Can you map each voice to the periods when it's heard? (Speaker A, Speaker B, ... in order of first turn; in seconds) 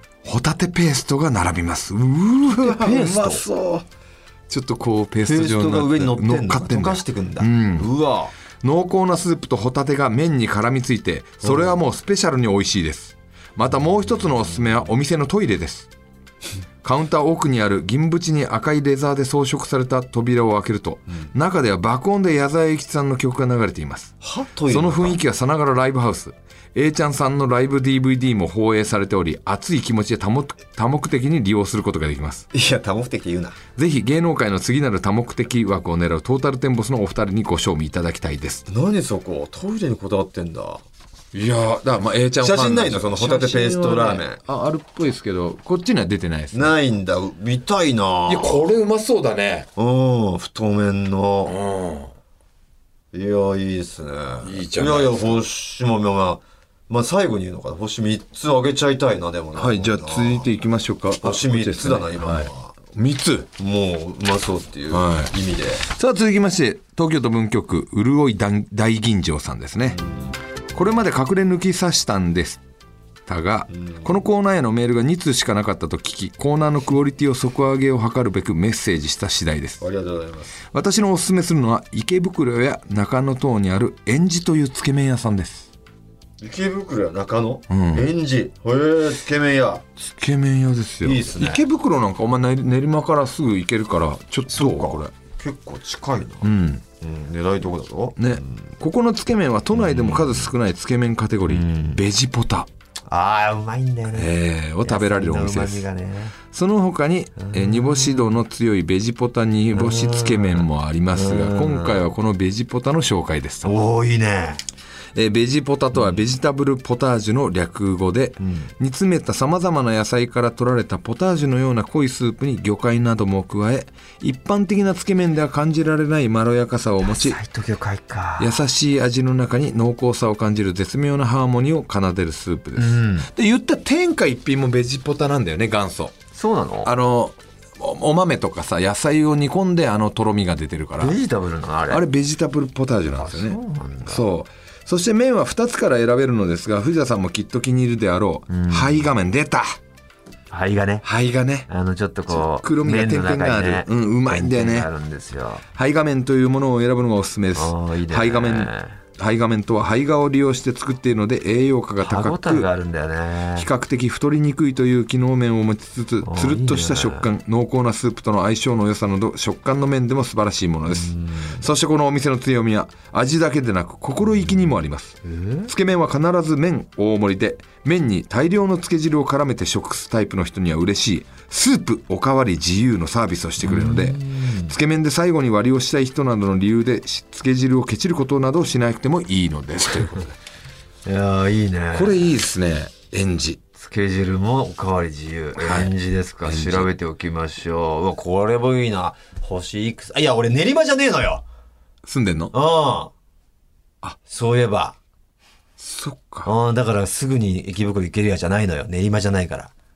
Speaker A: 0.2-3.8, 4.5-7.9, 8.6-15.9, 16.8-24.1, 24.7-32.5, 33.7-38.6, 41.3-46.7, 48.3-49.7, 51.5-52.1, 54.4-55.4, 59.5-63.5, 64.9-65.3, 65.8-70.0, 70.7-72.6, 73.3-79.8, 80.7-85.7, 87.7-88.1, 90.0-95.1, 96.4-96.8, 98.2-102.7, 104.1-105.8, 106.5-113.7, 115.1-127.4, 128.4-136.2, 136.8-141.2, 141.9-149.8, 151.0-151.7, 152.3-154.9, 155.7-162.7, 163.5-190.3, 191.9-193.6, 195.6-195.9, 196.4-196.9, 202.0-202.5, 205.8-206.5
Speaker B: 2.5-3.4, 5.2-8.3, 11.4-11.7, 24.2-25.2, 32.5-33.6, 38.7-40.8, 42.4-44.4, 46.5-48.6, 49.8-51.6, 53.1-60.5, 61.2-62.7, 63.6-65.8, 69.9-70.3, 73.7-74.1, 79.8-80.6, 86.4-89.8, 91.0-91.6, 94.5-98.6, 99.7-100.5, 101.5-102.0, 103.1-104.3, 104.8-106.3, 107.4-108.4, 109.7-112.0, 113.6-114.6, 115.9-116.2, 118.4-118.7, 127.0-128.6, 132.8-133.3, 136.3-136.9, 141.0-142.0, 143.1-144.2, 148.5-149.1, 150.5-151.0, 151.7-155.7, 157.5-159.0, 162.0-163.7, 166.2-167.3, 170.9-171.7, 175.2-175.7, 183.6-184.8, 191.0-192.3, 193.8-201.4, 202.5-203.1, 204.2-205.0, 206.4-209.7